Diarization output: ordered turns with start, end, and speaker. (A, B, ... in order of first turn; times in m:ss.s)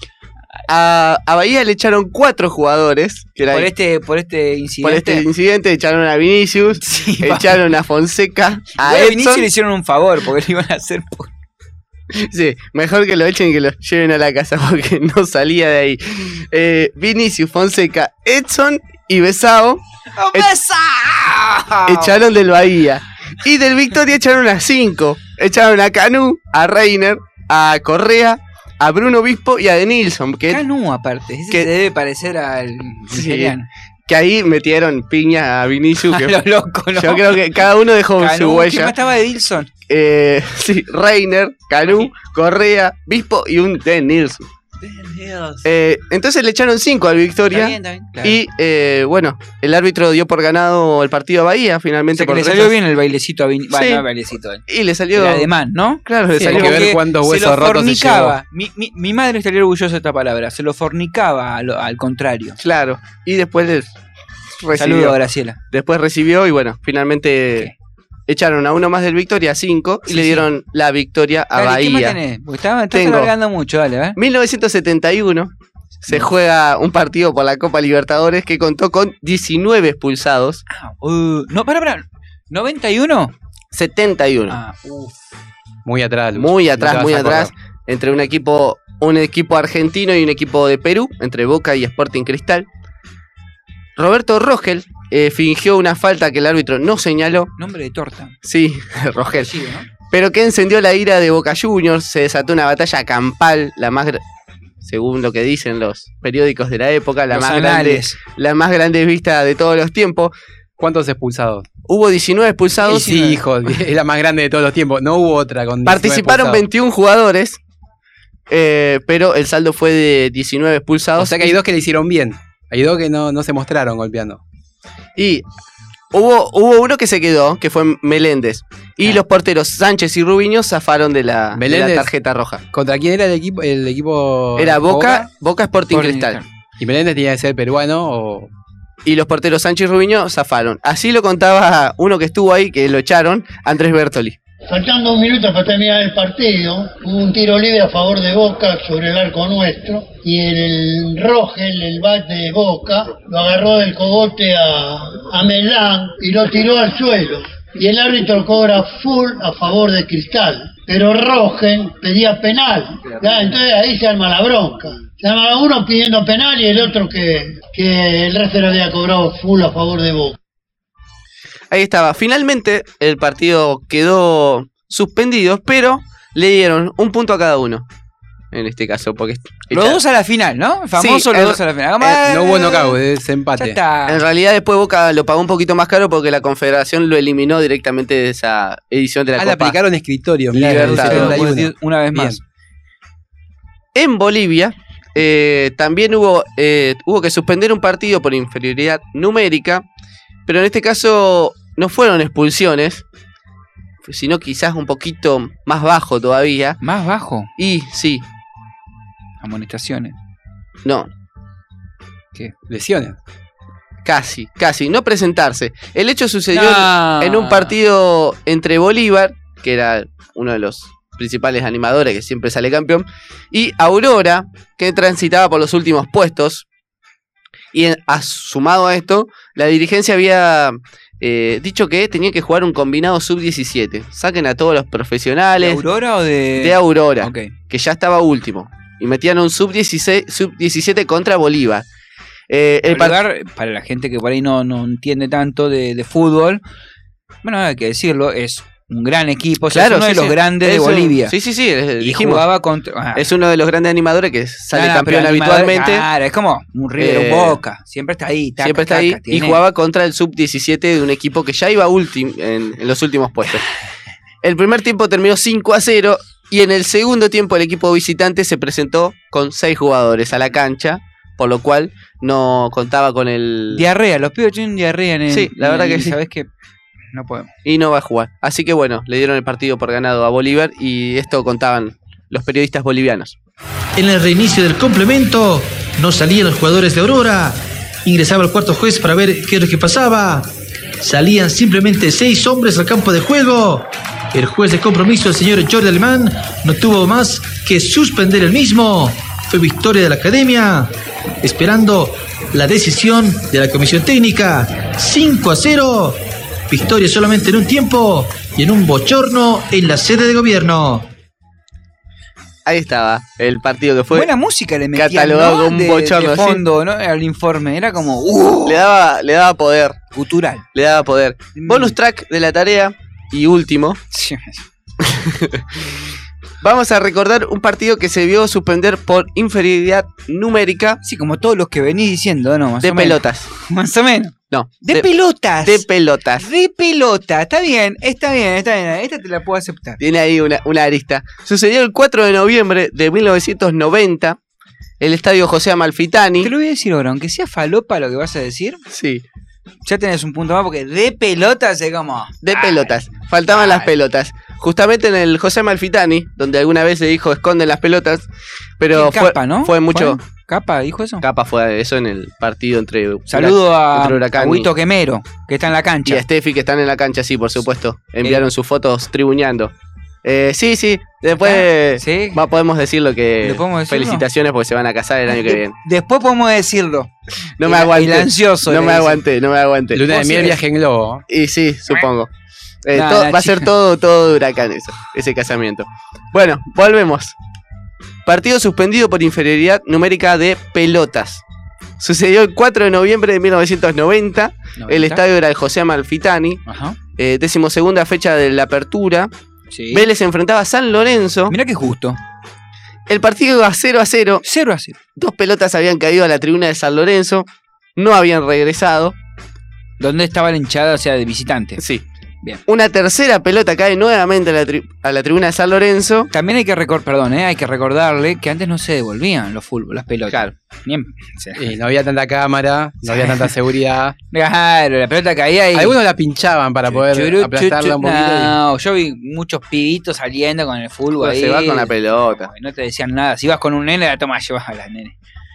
0:00.7-0:03.7 A
0:03.5-0:05.2 B
0:04.8-0:09.4 A
0:06.8-0:07.7 B
0:08.8-0:11.3 B
0:12.1-0:19.8 A
0:20.2-0:22.2 B
0:21.9-0:30.6 A
0:30.5-0:33.7 B
0:33.1-0:33.5 A
0:34.1-0:36.3 A
0:36.1-0:37.4 B
0:37.0-0:38.9 A
0:38.2-0:39.7 B
0:39.9-0:44.4 A
0:44.8-0:45.6 B
0:45.6-0:52.7 A
0:47.5-0:48.4 B
0:52.1-0:54.6 B
0:53.7-0:54.0 A
0:54.7-0:55.5 A
0:55.2-1:02.6 B
0:56.0-0:56.9 A
0:56.4-0:58.4 C
1:02.6-1:03.9 A
1:04.6-1:05.2 A
1:04.8-1:05.6 B
1:05.7-1:07.7 A
1:08.3-1:12.2 A
1:10.1-1:10.4 B
1:11.6-1:14.2 B
1:12.9-1:13.3 A
1:14.2-1:15.5 A
1:16.0-1:20.6 A
1:20.7-1:23.3 B
1:23.7-1:24.6 A
1:24.5-1:25.1 B
1:25.8-1:27.5 C
1:26.3-1:32.7 A
1:34.0-1:37.5 A
1:37.6-1:38.4 B
1:38.4-1:39.5 A
1:39.3-1:39.8 B
1:40.1-1:44.2 A
1:44.8-1:50.3 A
1:47.3-1:48.2 B
1:50.8-1:51.6 C
1:51.9-1:53.2 A
1:52.9-1:56.6 C
1:52.9-1:53.4 B
1:55.8-1:57.6 A
1:58.5-2:01.6 A
2:01.2-2:04.4 C
2:05.2-2:05.4 A
2:06.1-2:12.6 A
2:11.5-2:12.1 C
2:12.7-2:15.2 C
2:14.6-2:16.4 A
2:15.9-2:16.4 B
2:16.8-2:18.5 C
2:19.0-2:24.4 A
2:24.7-2:50.3 D
2:51.7-2:57.8 A
2:58.5-3:00.0 A
2:59.7-3:03.0 B
3:01.0-3:02.2 A
3:02.2-3:03.8 C
3:03.6-3:04.2 B
3:04.1-3:09.8 A
3:09.4-3:12.4 C
3:10.5-3:11.4 A
3:10.9-3:12.4 B
3:13.9-3:19.8 A
3:20.5-3:23.0 A
3:24.0-3:26.8 A
3:26.8-3:27.5 B
3:27.6-3:28.2 A
3:29.4-3:30.1 B
3:32.7-3:33.2 C
3:34.0-3:46.6 A
3:36.5-3:37.7 B
3:47.7-3:55.8 A
3:55.6-3:57.5 B
3:56.6-4:01.8 A
4:02.5-4:03.2 A
4:02.9-4:06.6 B
4:07.4-4:11.3 B
4:09.7-4:12.4 A
4:12.0-4:13.2 B
4:13.1-4:16.0 A
4:14.7-4:19.6 B
4:17.0-4:17.6 A
4:18.6-4:23.6 A
4:24.4-4:33.8 A
4:33.7-4:36.5 B
4:35.3-4:36.2 A
4:37.1-4:37.5 B
4:37.6-4:43.4 A
4:43.9-5:11.1 E
5:12.6-5:14.3 A
5:14.1-5:18.8 B
5:14.9-5:16.6 A
5:18.6-5:20.0 A
5:20.1-5:20.6 B
5:20.7-5:24.0 A
5:21.5-5:22.0 B
5:24.1-5:24.6 B
5:25.0-5:25.8 A
5:26.6-5:31.0 A
5:31.0-5:35.8 B
5:32.8-5:33.5 A
5:34.5-5:35.0 A
5:35.6-5:36.5 A
5:36.4-5:40.0 B
5:40.0-5:44.4 A
5:45.0-5:46.5 A
5:46.4-5:48.8 B
5:48.9-5:49.2 A
5:49.8-5:52.9 B
5:52.4-5:58.2 A
5:53.5-5:53.9 B
5:58.8-6:00.2 A
5:58.9-6:01.2 B
6:01.2-6:04.7 A
6:03.3-6:06.2 B
6:06.0-6:09.7 A
6:10.2-6:15.7 A
6:11.4-6:12.4 B
6:13.4-6:14.2 B
6:15.3-6:17.1 B
6:17.6-6:20.1 A
6:17.6-6:19.2 B
6:19.9-6:21.2 C
6:20.1-6:20.6 B
6:21.3-6:22.3 A
6:22.8-6:27.3 A
6:22.9-6:23.6 B
6:28.2-6:31.4 A
6:32.0-6:36.6 A
6:34.8-6:35.2 B
6:36.7-6:36.9 B
6:37.2-6:39.3 A
6:39.7-6:40.0 B
6:39.9-6:41.5 A
6:41.5-6:42.2 B
6:43.1-6:44.4 A
6:44.4-6:45.0 B
6:45.2-6:49.1 A
6:50.0-6:51.8 B
6:51.8-6:52.0 A
6:52.7-6:56.3 A
6:56.3-7:01.6 B
7:01.6-7:04.1 C
7:03.1-7:03.5 B
7:04.3-7:06.0 B
7:05.7-7:08.6 C
7:06.9-7:15.1 B
7:11.2-7:12.5 A